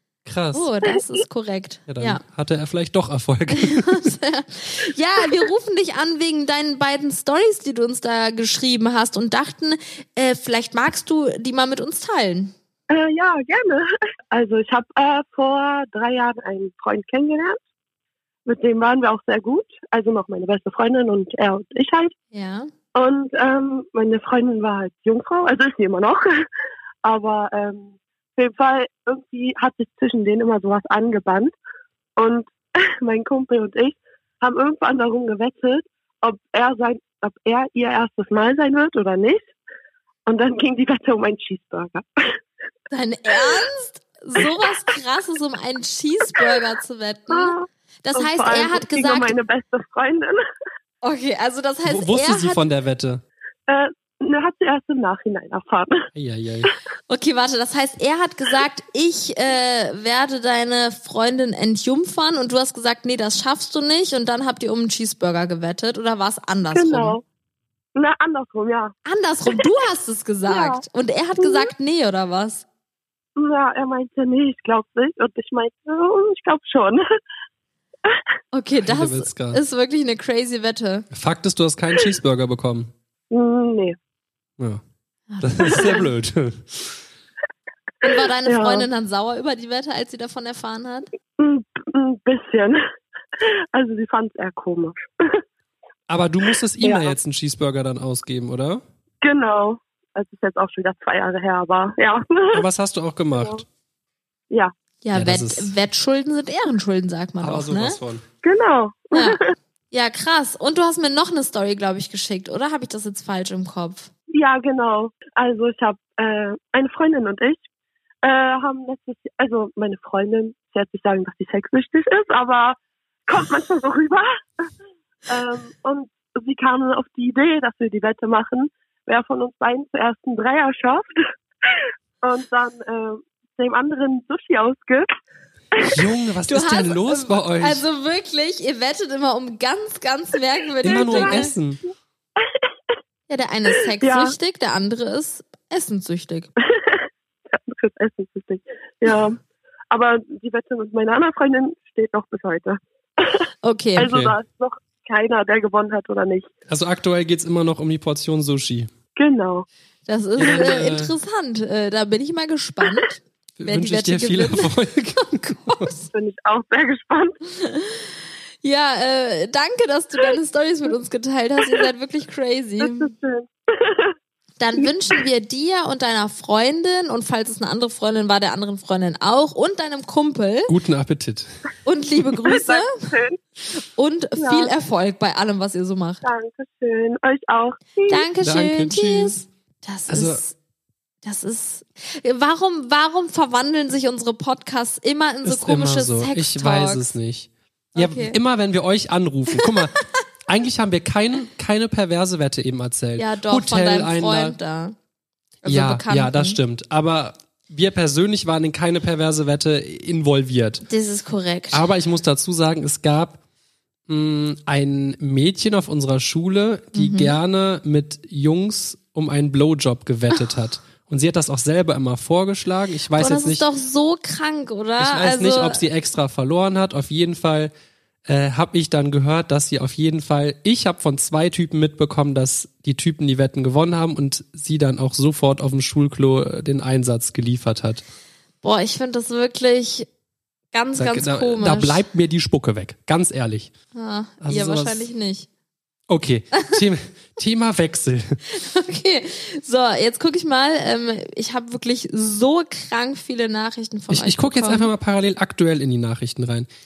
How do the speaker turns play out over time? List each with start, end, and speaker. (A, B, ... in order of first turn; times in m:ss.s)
0:00.2-0:00.7 A
0:00.5-0:02.2 B
0:01.9-0:04.1 A
0:03.5-0:12.5 B
0:12.9-0:17.6 C
0:18.4-0:22.1 C
0:22.3-0:22.7 B
0:22.9-0:26.4 C
0:27.0-0:31.5 C
0:32.2-0:39.5 C
0:40.2-0:42.4 C
0:42.9-0:49.4 B
0:47.3-0:50.4 C
0:51.0-0:52.6 B
0:51.8-0:53.2 A
0:53.7-0:56.0 C
0:56.1-0:56.7 A
0:57.1-1:07.2 B
1:06.7-1:07.2 C
1:07.9-1:08.9 C
1:09.0-1:12.6 B
1:10.5-1:10.8 C
1:11.4-1:11.7 C
1:13.4-1:17.0 C
1:18.5-1:21.1 B
1:18.8-1:19.6 A
1:21.1-1:22.9 A
1:23.3-1:24.0 C
1:25.3-1:26.1 B
1:25.4-1:27.0 A
1:25.7-1:26.0 C
1:28.0-1:31.1 B
1:28.4-1:28.9 C
1:31.4-1:32.8 C
1:33.4-1:35.4 C
1:36.1-1:38.8 A
1:36.8-1:37.1 C
1:39.2-1:42.6 C
1:42.5-1:43.6 A
1:45.0-1:48.0 B
1:45.1-1:45.7 A
1:47.4-1:48.2 A
1:48.4-1:49.5 C
1:49.1-1:49.4 B
1:49.9-1:54.1 B
1:54.3-1:57.6 C
1:58.2-2:04.3 C
2:05.3-2:11.2 C
2:12.2-2:15.1 C
2:15.8-2:17.8 A
2:16.5-2:21.5 B
2:20.8-2:21.8 A
2:20.8-2:21.5 C
2:23.3-2:26.5 B
2:24.0-2:24.4 C
2:26.7-2:29.4 C
2:29.9-2:33.4 C
2:33.6-2:34.1 B
2:34.0-2:36.5 C
2:34.0-2:34.4 A
2:36.7-2:38.9 A
2:39.2-2:39.7 C
2:40.1-2:44.7 B
2:40.4-2:41.1 A
2:43.6-2:45.9 A
2:45.3-2:46.1 B
2:46.1-2:47.4 C
2:47.6-2:48.1 B
2:48.6-2:53.1 B
2:52.8-2:54.1 C
2:54.6-3:00.7 B
3:00.7-3:01.5 A
3:01.8-3:03.1 B
3:02.4-3:03.4 C
3:03.8-3:06.2 B
3:04.4-3:04.7 C
3:06.2-3:08.2 C
3:08.1-3:10.5 B
3:08.4-3:09.4 A
3:10.1-3:10.4 A
3:11.2-3:17.1 B
3:15.4-3:24.6 A
3:17.9-3:18.4 B
3:23.2-3:25.0 B
3:25.6-3:26.6 B
3:25.6-3:30.8 A
3:30.8-3:31.8 B
3:31.7-3:33.4 A
3:34.1-3:43.6 A
3:36.9-3:37.4 B
3:43.2-3:45.8 B
3:45.0-3:47.7 A
3:48.2-3:58.0 A
3:58.6-4:00.1 B
4:00.7-4:02.0 B
4:01.0-4:03.7 A
4:03.9-4:05.5 B
4:04.4-4:05.1 A
4:06.1-4:08.4 A
4:08.5-4:14.9 B
4:14.1-4:16.7 A